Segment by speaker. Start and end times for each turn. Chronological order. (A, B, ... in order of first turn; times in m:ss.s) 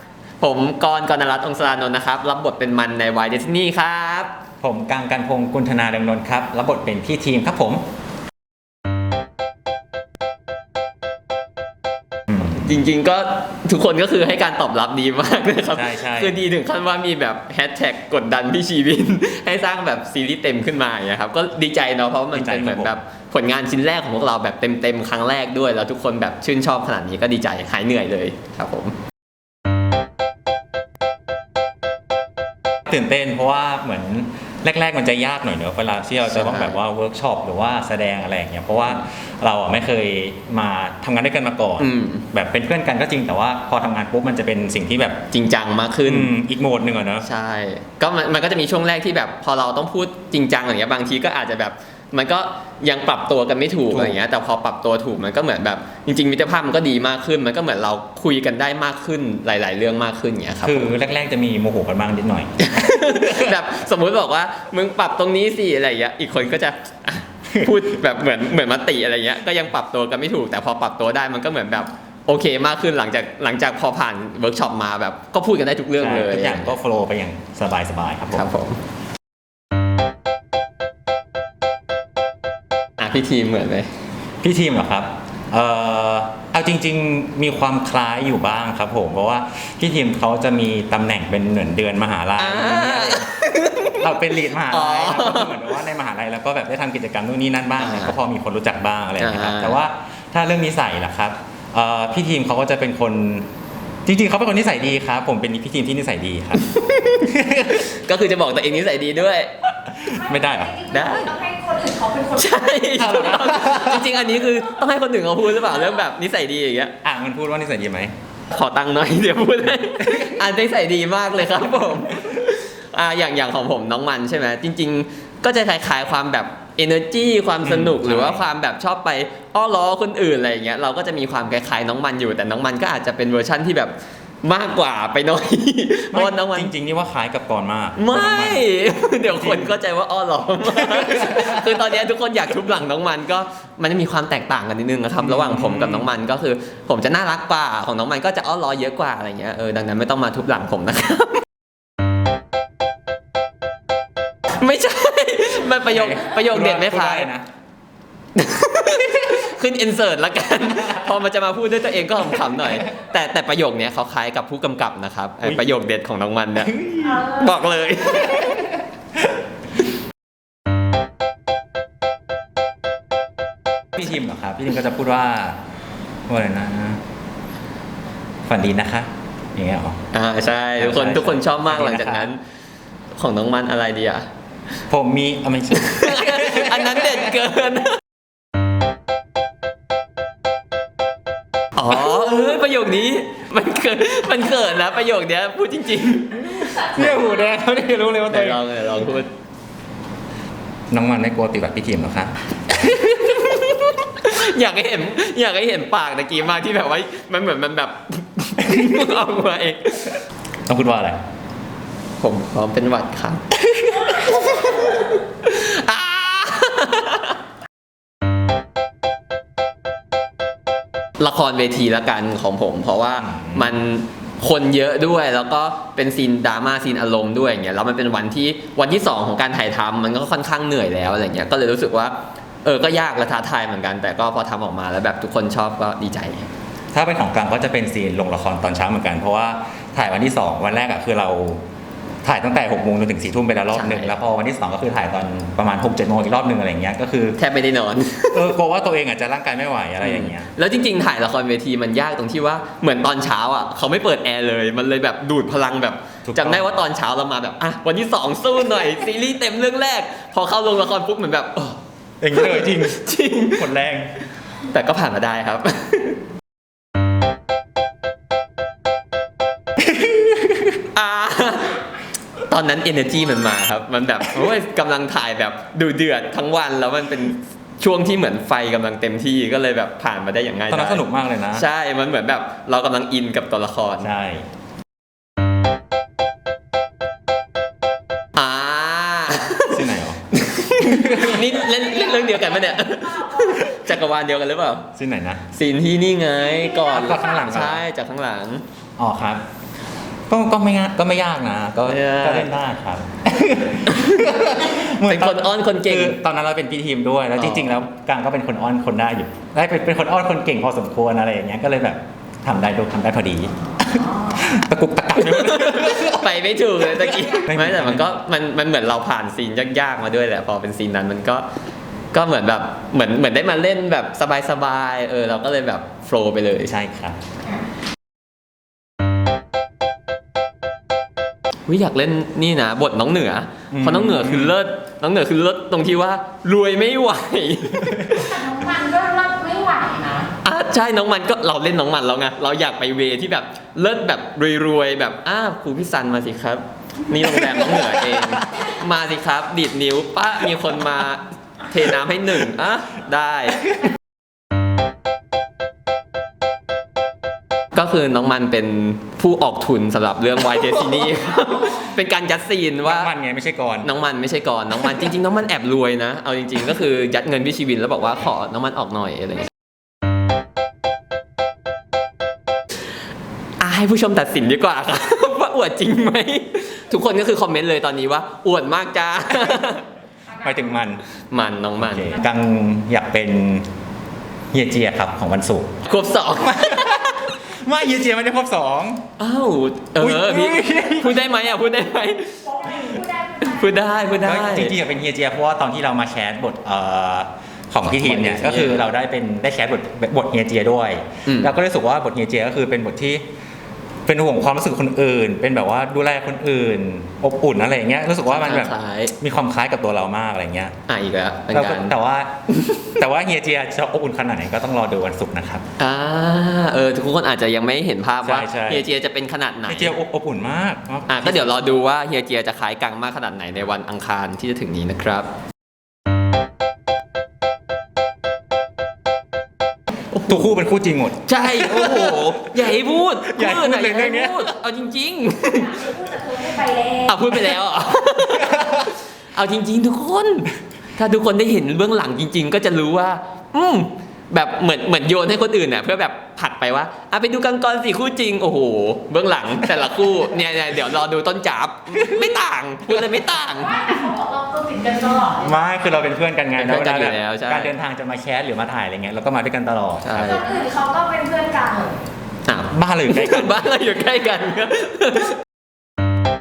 0:00.4-0:04.3 A
0:04.6-0:07.8 B
0:12.4-0:29.0 A
0:15.7-0:16.4 B
0:22.3-0:23.0 B
0:32.9-0:45.2 B
0:36.3-0:36.8 A
0:41.8-0:42.3 A
0:45.3-0:46.3 A
0:46.1-0:47.3 B
0:47.2-1:00.9 A
0:53.9-0:54.2 B
1:00.6-1:03.3 B
1:02.6-1:16.8 A
1:16.0-1:18.4 B
1:18.3-1:18.8 A
1:23.0-1:23.9 A
1:24.4-1:33.3 B
1:32.4-1:35.6 A
1:34.0-1:43.5 B
1:37.8-1:38.2 A
1:39.2-1:39.8 A
1:44.1-1:46.6 B
1:46.6-1:47.1 A
1:47.2-1:47.9 B
1:47.7-1:49.5 A
1:49.9-1:50.8 B
1:50.1-1:52.5 C
1:50.9-1:51.4 A
1:52.3-1:56.9 A
1:53.0-1:54.1 B
1:57.0-1:58.1 B
1:58.5-2:16.7 A
2:07.6-2:08.4 B
2:16.1-2:18.6 B
2:18.0-2:31.4 A
2:19.3-2:19.7 B
2:20.9-2:21.6 B
2:25.2-2:26.1 B
2:34.6-2:37.3 A
2:35.9-2:37.5 B
2:38.4-2:48.8 A
2:46.6-2:47.3 B
2:54.0-2:55.6 B
2:56.3-2:57.0 B
2:58.5-3:00.0 B
3:00.1-3:02.4 A
3:00.8-3:02.3 B
3:03.2-3:04.3 A
3:04.9-3:07.2 B
3:05.7-3:08.0 A
3:11.8-3:17.2 A
3:16.4-3:18.6 B
3:18.3-3:19.3 A
3:20.9-3:22.3 B
3:22.7-3:30.2 A
3:30.7-3:31.2 B
3:32.2-3:33.4 A
3:34.0-3:37.4 A
3:41.2-3:56.5 A
3:43.2-3:43.7 B
3:56.9-4:01.6 B
4:02.2-4:07.4 B
4:03.7-4:04.2 A
4:07.4-4:08.5 A
4:08.3-4:10.5 B
4:10.0-4:21.8 A
4:16.3-4:16.7 B
4:22.2-4:24.1 B
4:22.3-4:23.7 A
4:24.7-4:26.2 A
4:29.9-4:30.7 B
4:30.9-4:31.8 A
4:32.5-4:44.1 A
4:40.7-4:41.7 B
4:44.0-4:44.5 B
4:48.4-4:54.9 A
4:49.7-4:50.2 B
4:50.8-4:51.6 B
4:52.1-4:53.6 C
4:55.0-4:55.4 B
4:55.5-4:58.6 A
4:56.8-4:57.4 C
4:56.8-4:57.8 B
4:59.0-4:59.4 B
5:00.3-5:16.3 B
5:01.8-5:02.5 A
5:03.9-5:06.2 A
5:07.4-5:07.8 A
5:13.9-5:14.4 C
5:15.2-5:21.5 A
5:17.2-5:18.0 B
5:22.1-5:26.7 A
5:26.6-5:27.2 B
5:31.7-5:38.3 A
5:33.7-5:34.5 B
5:37.9-5:38.2 B
5:38.2-5:40.3 C
5:40.4-5:53.9 A
5:47.2-5:48.5 B
5:57.7-6:03.1 A
6:02.8-6:03.9 B
6:03.8-6:09.5 A
6:13.6-6:19.8 A
6:20.4-6:21.0 B
6:21.3-6:22.2 A
6:21.8-6:23.7 B
6:24.5-6:25.8 B
6:25.8-6:27.4 A
6:26.5-6:29.0 B
6:29.2-6:34.8 A
6:30.0-6:31.2 B
6:32.5-6:33.7 C
6:34.2-6:43.2 B
6:37.8-6:38.9 A
6:41.2-6:41.5 A
6:44.1-6:50.8 B
6:48.2-6:49.1 A
6:50.9-6:51.9 A
6:51.5-6:52.3 B
6:52.5-6:53.0 A
6:53.0-6:55.6 B
6:55.8-7:00.0 A
6:58.2-6:58.8 B
6:59.7-7:01.5 B
7:01.1-7:05.3 A
7:10.1-7:10.6 A
7:10.3-7:12.7 B
7:11.2-7:15.9 A
7:13.2-7:14.5 B
7:15.5-7:17.4 C
7:17.1-7:33.9 A
7:31.9-7:32.4 B
7:33.6-7:35.6 C
7:35.3-7:40.4 B
7:36.6-7:37.7 A
7:40.0-7:40.6 A
7:40.2-7:42.0 C
7:42.5-7:45.4 A
7:42.7-7:43.7 B